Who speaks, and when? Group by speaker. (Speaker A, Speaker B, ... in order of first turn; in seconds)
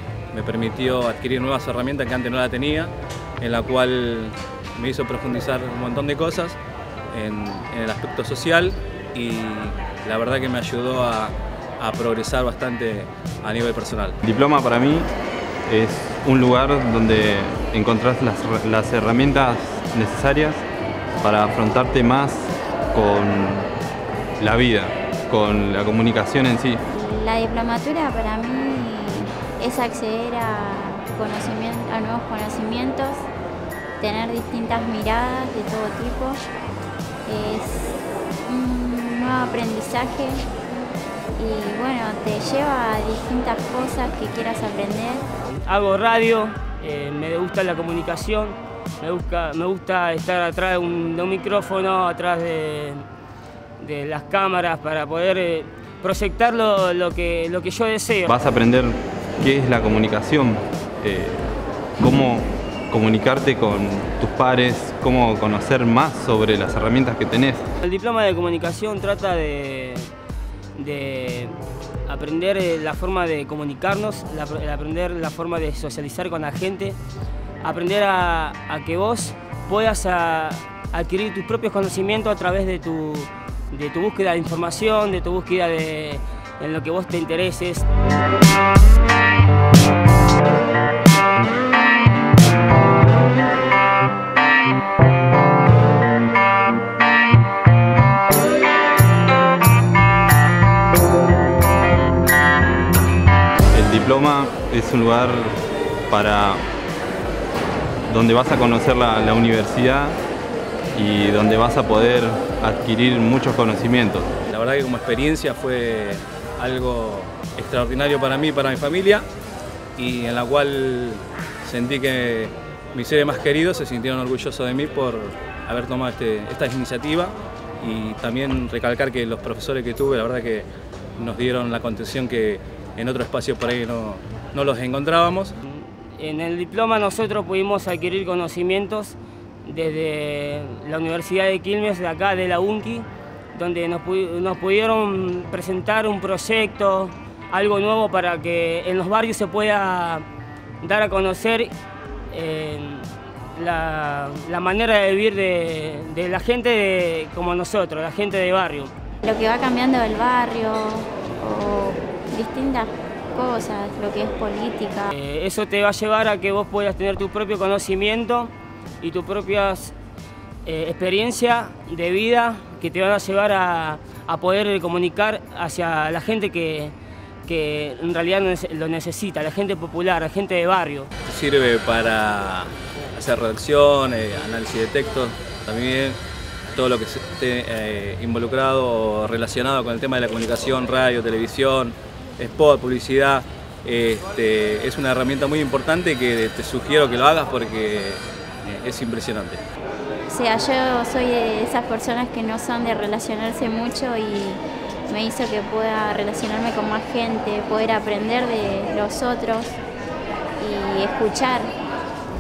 Speaker A: 0.3-6.6, 7.1-14.2, 114.5-119.3, 120.0-130.7, 131.2-135.5, 181.2-186.2, 186.8-199.6
Speaker B: 14.2-15.1, 15.7-20.7, 21.2-23.7, 24.4-26.8, 58.3-67.7, 103.7-106.6, 108.1-110.2, 110.9-114.3
Speaker C: 26.9-33.3, 34.0-36.4, 37.3-40.5, 41.4-45.3, 159.2-165.1, 200.3-209.8, 210.6-211.7
Speaker D: 45.5-53.1, 53.8-58.3, 67.8-70.1, 70.8-77.0, 77.6-87.9, 135.6-150.2, 150.8-151.7, 152.3-158.9, 165.1-169.9, 170.7-176.9, 177.5-181.1